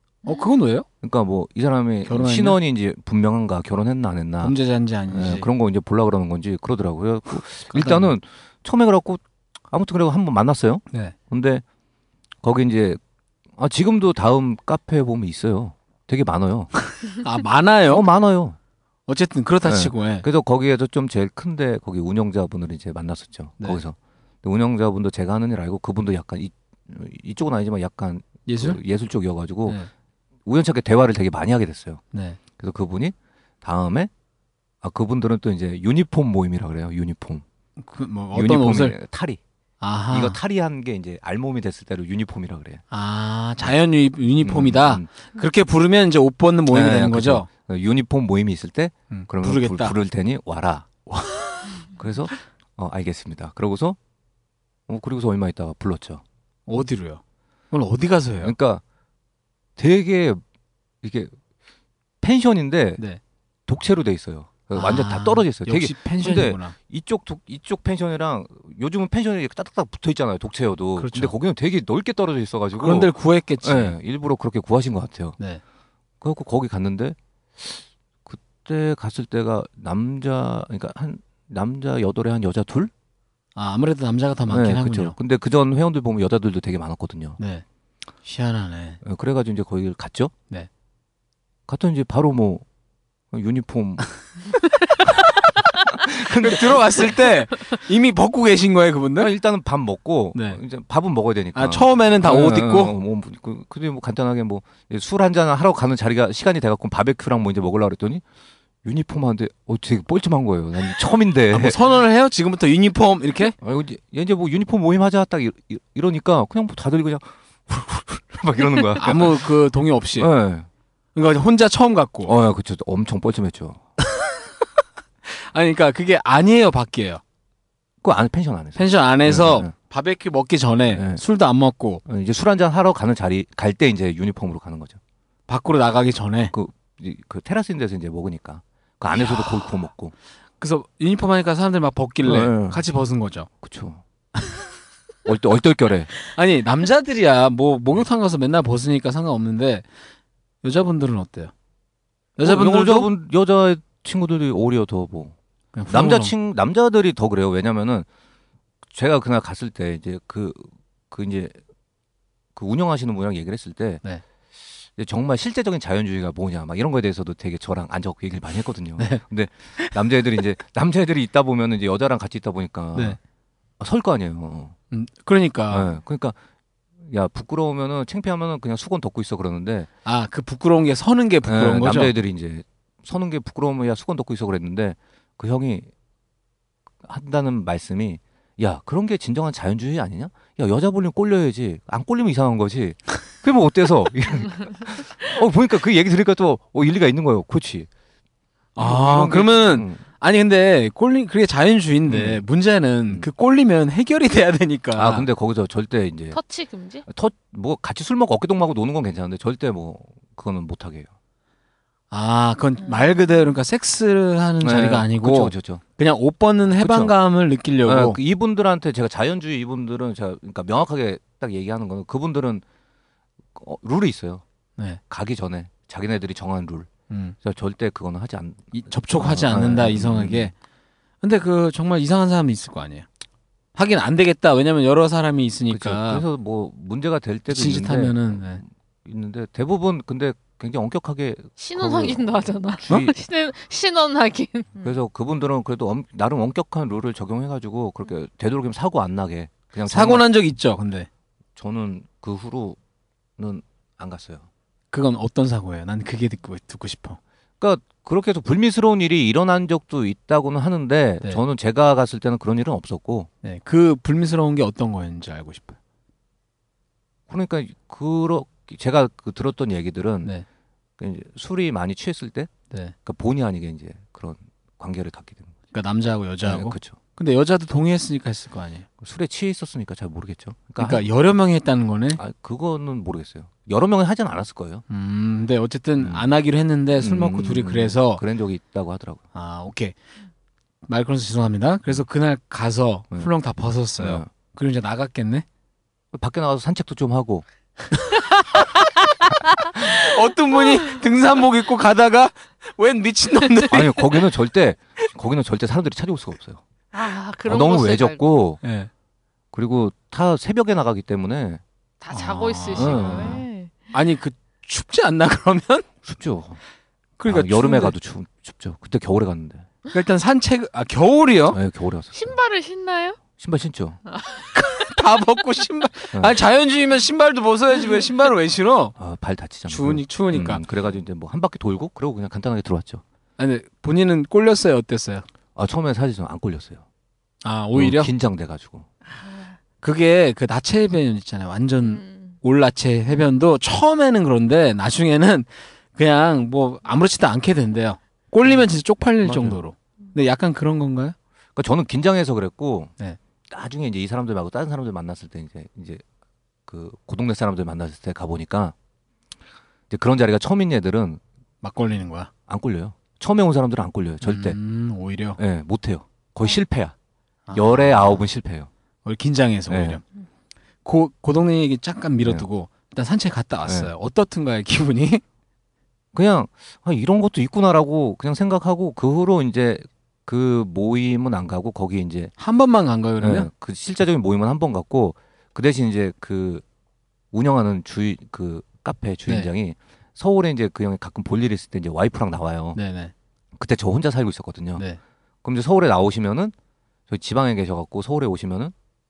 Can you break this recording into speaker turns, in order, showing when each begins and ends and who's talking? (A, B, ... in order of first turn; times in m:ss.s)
0:00.2-0:00.5 A
0:00.2-0:00.9 B
0:01.0-0:04.6 C
0:02.1-0:02.6 B
0:04.4-0:05.5 B
0:05.1-0:11.6 C
0:07.7-0:08.1 B
0:12.4-0:13.0 C
0:13.6-0:16.7 C
0:17.1-0:18.0 B
0:17.9-0:18.6 C
0:19.1-0:20.3 B
0:19.6-0:29.8 C
0:28.4-0:28.8 B
0:30.4-0:32.0 C
0:32.1-0:32.4 B
0:32.6-0:34.1 C
0:34.8-0:37.4 C
0:37.8-0:39.0 B
0:38.3-0:39.4 C
0:39.8-0:40.4 B
0:40.1-0:42.8 C
0:42.9-0:47.5 B
0:44.4-0:45.1 C
0:46.7-0:50.9 C
0:49.1-0:49.9 B
0:51.1-0:51.8 B
0:52.0-0:54.0 C
0:54.9-0:56.2 C
0:56.7-0:58.5 B
0:58.4-0:58.8 C
0:59.8-1:00.4 C
1:01.0-1:01.3 C
1:02.2-1:03.0 C
1:03.7-1:15.4 C
1:04.7-1:06.7 B
1:11.0-1:11.3 B
1:12.8-1:13.9 B
1:16.2-1:22.9 C
1:23.6-1:25.1 B
1:24.5-1:27.4 C
1:27.4-1:27.6 B
1:28.2-1:29.0 B
1:29.0-1:30.3 C
1:31.7-1:32.6 C
1:33.3-1:34.2 C
1:35.0-1:37.2 C
1:36.4-1:39.3 B
1:39.2-1:48.2 C
1:40.3-1:40.6 B
1:41.6-1:42.9 B
1:48.8-1:51.8 C
1:51.5-1:53.6 B
1:53.6-1:59.4 C
1:59.0-2:00.3 B
2:00.2-2:00.7 C
2:01.1-2:02.3 B
2:02.2-2:03.8 C
2:04.1-2:04.4 B
2:05.2-2:07.2 B
2:08.0-2:09.7 C
2:08.8-2:12.0 B
2:10.9-2:11.2 C
2:12.1-2:15.0 C
2:15.5-2:16.5 B
2:16.5-2:20.1 C
2:19.1-2:19.7 B
2:20.6-2:23.5 B
2:22.2-2:22.8 C
2:23.6-2:24.0 C
2:25.2-2:26.1 C
2:26.3-2:29.8 B
2:30.6-2:31.5 B
2:32.4-2:33.1 B
2:32.4-2:35.4 C
2:35.7-2:36.3 B
2:35.9-2:38.1 C
2:38.9-2:41.6 C
2:42.6-2:44.0 C
2:45.0-2:53.2 C
2:53.8-2:54.8 C
2:54.9-2:55.9 B
2:55.7-2:56.4 C
2:57.0-2:59.9 C
3:00.0-3:02.1 B
3:01.4-3:05.9 C
3:07.0-3:17.9 C
3:18.8-3:20.0 C
3:18.8-3:25.3 B
3:22.1-3:22.4 C
3:25.0-3:26.4 C
3:26.3-3:27.0 A
3:27.1-3:31.1 C
3:32.1-3:38.2 B
3:34.6-3:35.8 C
3:36.8-3:37.1 C
3:37.8-3:42.6 C
3:43.6-3:44.4 C
3:45.1-3:46.9 C
3:47.1-3:47.4 B
3:47.4-3:50.5 C
3:48.7-3:50.5 B
3:51.2-3:53.1 B
3:53.8-3:56.2 B
3:55.7-3:58.4 C
3:57.5-3:58.6 B
3:59.0-4:03.1 C
4:01.6-4:04.9 A
4:04.8-4:10.3 C
4:09.9-4:11.1 B
4:11.6-4:12.8 C
4:13.4-4:14.5 C
4:14.9-4:17.2 B
4:17.6-4:23.3 C
4:23.4-4:25.8 B
4:27.3-4:30.3 C
4:31.0-4:32.5 C
4:33.0-4:35.5 C
4:35.7-4:38.8 B
4:36.4-4:37.0 C
4:39.0-4:41.1 C
4:40.8-4:42.2 B
4:42.2-4:44.8 C
4:44.9-4:48.2 B
4:46.0-4:46.3 C
4:47.0-4:49.2 C
4:49.3-4:50.0 B
4:50.9-4:55.4 B
4:54.0-4:54.3 C
4:56.1-4:57.4 C
4:57.9-4:58.9 B
4:59.7-5:04.2 B
5:03.7-5:06.6 C
5:06.9-5:08.3 A
5:07.4-5:08.6 C
5:08.6-5:08.9 B
5:09.5-5:11.6 C
5:12.0-5:13.9 A
5:12.1-5:15.8 B
5:12.7-5:13.4 C
5:16.0-5:16.6 C
5:17.2-5:17.9 B
5:17.3-5:19.7 C
5:19.9-5:21.6 B
5:21.5-5:22.3 C
5:22.1-5:23.2 A
5:23.4-5:24.0 C
5:24.1-5:24.5 A
5:24.5-5:28.9 B
5:29.0-5:33.0 C
5:29.7-5:30.6 B
5:33.4-5:35.2 B
5:35.6-5:36.8 C
5:37.4-5:38.1 B
5:37.7-5:38.8 C
5:39.8-5:51.2 B
5:41.8-5:42.3 A
5:49.2-5:49.6 C
5:51.6-5:52.9 C
5:53.5-5:56.0 C
5:56.7-5:58.7 C
5:59.9-6:01.2 C
6:01.6-6:02.3 B
6:02.5-6:04.6 C
6:04.2-6:05.4 B
6:05.4-6:06.9 C
6:07.5-6:08.3 B
6:07.5-6:08.7 C
6:09.0-6:10.0 B
6:09.7-6:10.0 C
6:10.8-6:15.2 B
6:16.1-6:22.3 C
6:22.4-6:23.5 B
6:23.2-6:26.6 C
6:27.3-6:32.8 C
6:32.7-6:33.1 B
6:33.6-6:34.8 C
6:35.4-6:36.5 C
6:37.1-6:38.7 C